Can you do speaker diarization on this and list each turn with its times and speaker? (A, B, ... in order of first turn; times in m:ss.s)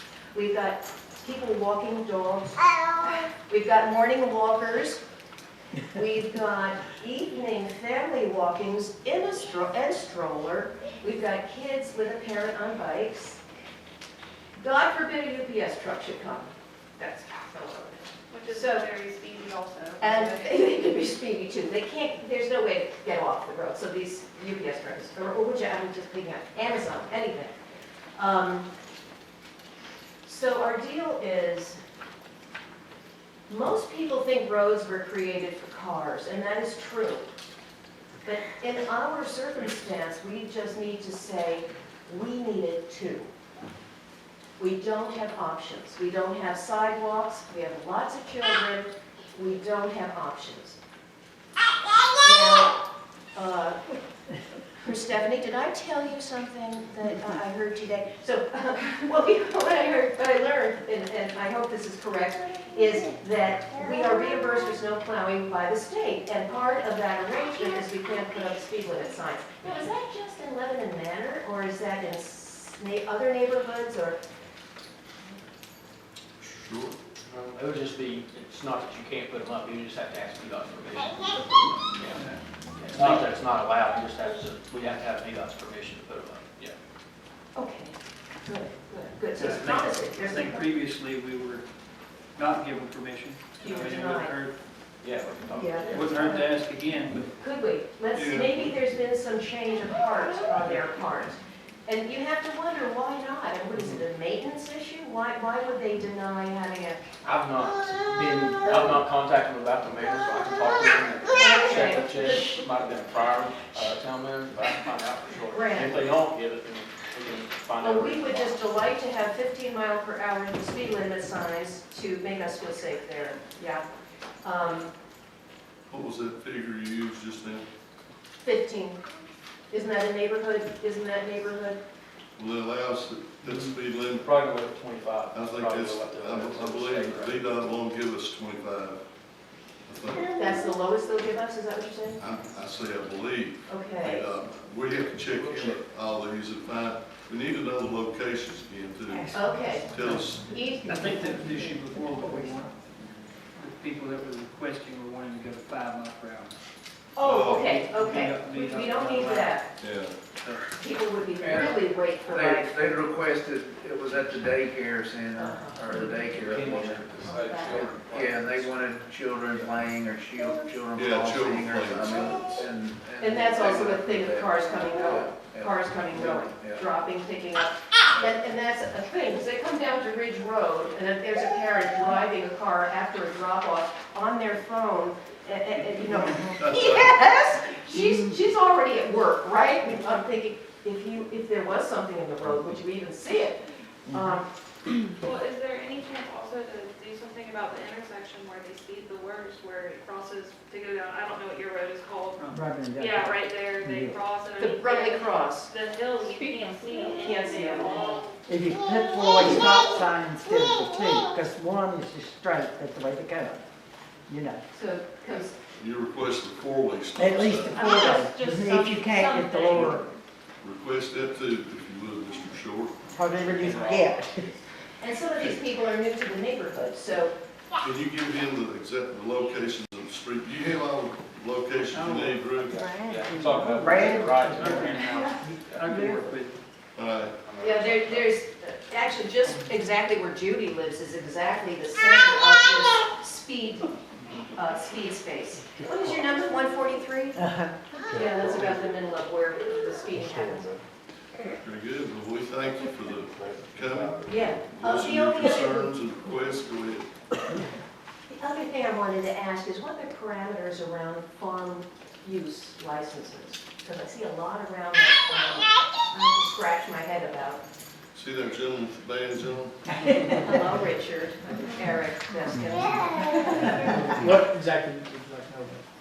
0:00.3-0:05.0 A
0:05.9-0:13.4 A
0:14.6-0:18.8 A
0:18.3-0:20.5 B
0:20.0-0:27.5 A
0:28.1-0:28.7 A
0:30.2-0:31.8 A
0:33.5-0:37.3 A
0:38.2-0:43.3 A
0:44.6-0:50.8 A
0:52.2-0:52.8 A
0:53.3-0:53.8 A
0:54.8-1:14.2 A
1:16.4-1:17.0 C
1:17.2-1:22.2 D
1:22.1-1:22.4 E
1:22.7-1:26.7 D
1:22.9-1:23.2 E
1:27.5-1:30.7 A
1:29.4-1:31.6 E
1:32.3-1:34.5 E
1:33.6-1:34.4 A
1:35.0-1:36.4 D
1:35.5-1:36.6 A
1:35.9-1:37.3 E
1:37.4-1:47.0 A
1:38.1-1:38.6 C
1:43.7-1:44.0 D
1:47.2-1:58.6 D
1:51.4-1:52.6 A
1:55.5-1:56.0 A
1:57.8-2:03.8 A
2:04.4-2:04.9 A
2:05.9-2:07.7 C
2:08.4-2:09.0 A
2:09.7-2:11.8 A
2:12.4-2:14.3 C
2:13.4-2:17.4 D
2:15.3-2:19.0 C
2:19.8-2:20.4 C
2:20.2-2:22.2 A
2:22.2-2:30.6 C
2:23.7-2:24.2 A
2:25.5-2:25.8 F
2:29.1-2:30.2 G
2:29.3-2:31.6 A
2:30.8-2:32.8 E
2:32.2-2:32.6 G
2:33.6-2:36.6 E
2:37.1-2:39.7 A
2:37.2-2:37.9 C
2:37.7-2:39.6 E
2:39.8-2:40.2 C
2:40.8-2:43.0 A
2:41.4-2:56.8 F
2:45.4-2:45.8 A
2:45.9-2:48.4 D
2:47.4-2:47.8 A
2:50.9-2:52.7 C
2:53.2-3:14.5 A
3:06.0-3:07.2 C
3:15.2-3:28.3 B
3:22.5-3:24.2 G
3:24.6-3:25.7 A
3:27.1-3:28.2 A
3:28.4-3:33.6 G
3:34.3-3:34.6 G
3:34.7-3:35.6 A
3:35.8-3:37.8 C
3:37.2-3:40.0 G
3:37.7-3:40.1 B
3:40.6-3:43.0 C
3:43.1-3:44.5 G
3:43.6-3:44.5 D
3:45.0-3:47.3 A
3:47.8-3:52.8 C
3:52.6-3:56.0 D
3:52.8-3:54.9 G
3:53.6-3:56.6 E
3:55.9-3:56.2 G
3:56.9-3:57.3 C
3:57.4-3:58.3 D
3:57.6-4:03.9 A
4:04.5-4:10.7 A
4:07.4-4:07.8 G
4:11.6-4:17.1 C
4:14.3-4:15.9 A
4:18.3-4:27.6 A
4:28.1-4:29.9 C
4:30.4-4:33.9 A
4:33.7-4:35.8 H